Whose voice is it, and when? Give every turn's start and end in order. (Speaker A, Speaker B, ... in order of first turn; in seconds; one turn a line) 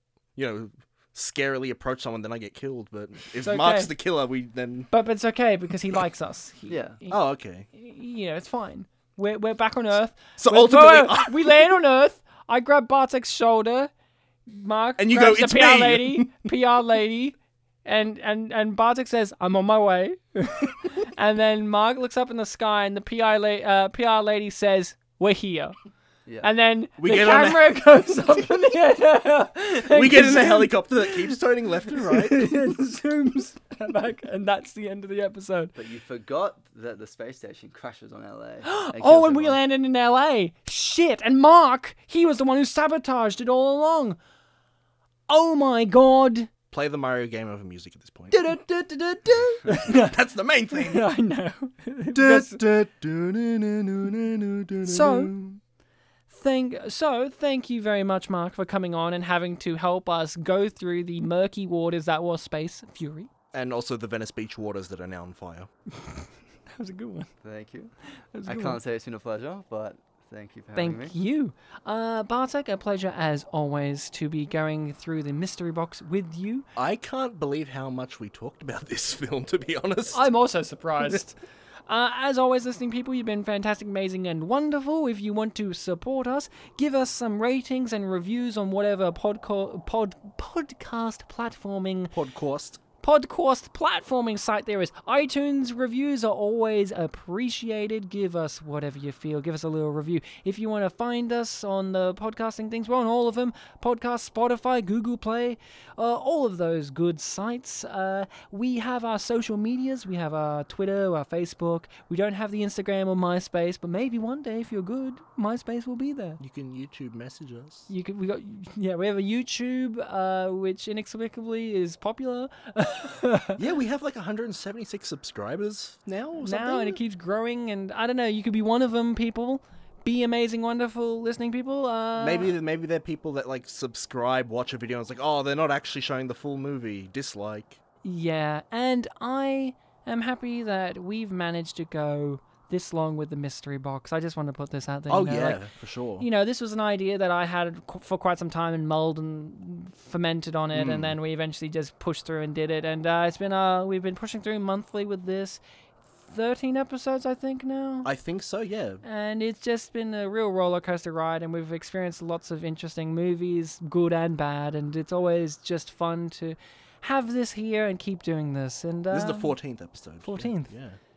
Speaker A: 0.3-4.9
Speaker B: 3.4-3.9
Speaker B: 4.9-13.9
Speaker C: 6.7-7.0
Speaker A: 7.1-7.7
Speaker A: 10.4-11.6
Speaker B: 14.5-25.8
Speaker A: 15.0-16.4
Speaker B: 26.4-31.3
Speaker A: 27.0-27.7
Speaker A: 29.9-32.4
Speaker B: 32.1-35.8
Speaker C: 35.7-39.6
Speaker B: 38.6-44.2
Speaker B: 45.3-46.5
Speaker A: 46.7-48.5
Speaker B: 48.3-50.1
Speaker A: 49.7-51.1
Speaker B: 50.7-52.6
Speaker A: 52.1-55.6
Speaker B: 54.8-55.3
Speaker B: 56.3-63.3
Speaker A: 63.5-65.7
Speaker B: 65.9-67.3
Speaker C: 67.4-67.9
Speaker B: 68.3-68.8
Speaker C: 68.4-71.1
Speaker B: 70.7-76.7
Speaker A: 76.8-80.3
Speaker B: 80.1-92.1
Speaker A: 92.1-92.8
Speaker B: 93.0-116.4
Speaker A: 116.4-117.9
Speaker B: 117.9-123.6
Speaker A: 123.6-127.0
Speaker B: 126.4-132.5
Speaker A: 132.2-137.8
Speaker B: 138.0-145.6
Speaker A: 145.1-146.2
Speaker B: 146.2-155.6
Speaker A: 150.7-151.2
Speaker B: 156.2-158.1
Speaker A: 158.0-159.0
Speaker B: 159.0-169.5
Speaker A: 169.1-171.0
Speaker B: 170.2-170.7